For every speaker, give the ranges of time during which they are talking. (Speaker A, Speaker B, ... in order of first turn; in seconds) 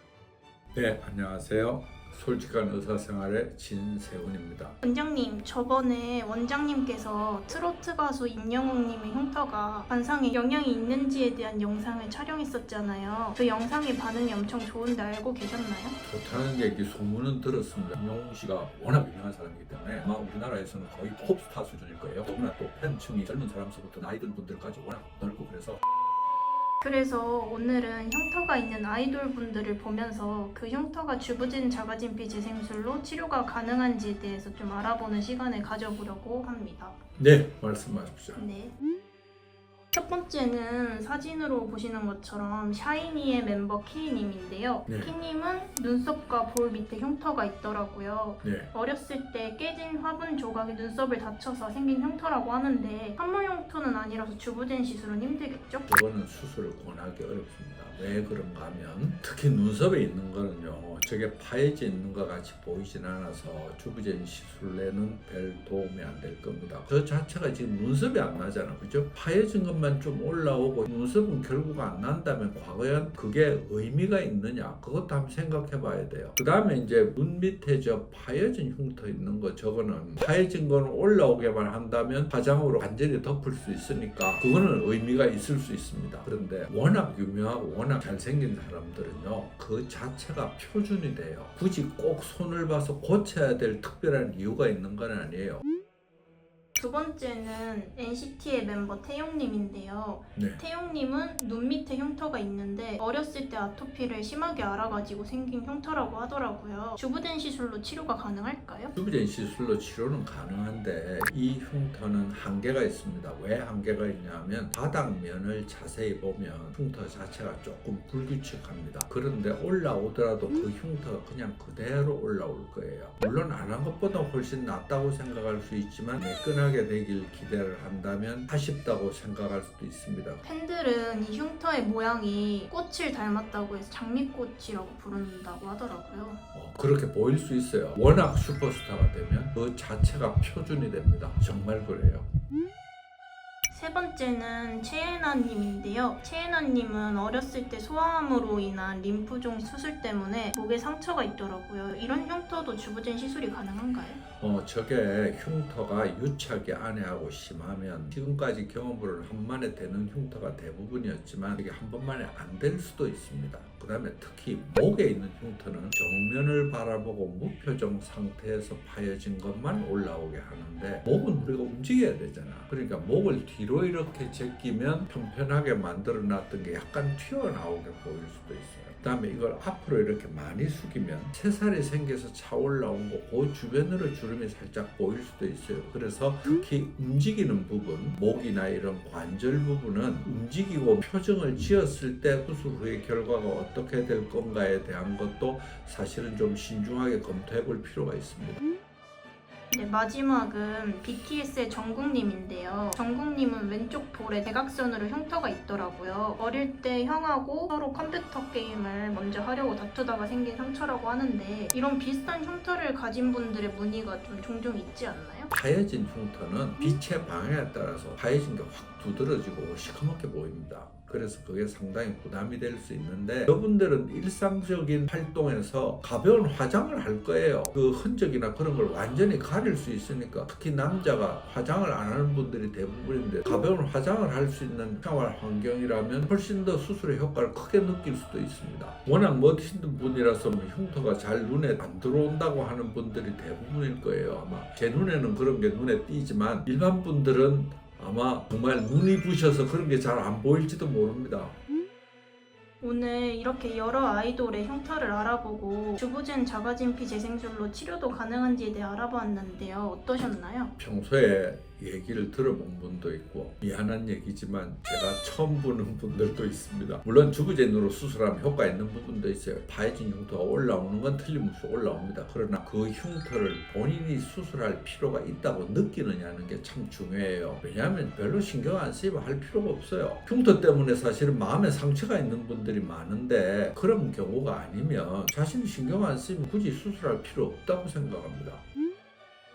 Speaker A: 0.7-4.8, 16.0-25.8, 37.2-38.4, 44.9-45.1, 48.4-48.7, 55.9-95.6, 100.3-100.6, 108.9-130.4, 136.5-142.3, 154.3-198.6, 215.5-251.6, 260.8-288.6
Speaker B: 4.8-16.0, 26.8-37.0, 38.3-38.7, 39.9-55.9, 96.8-108.9, 130.4-136.4, 143.7-154.2, 199.7-215.5, 252.8-260.7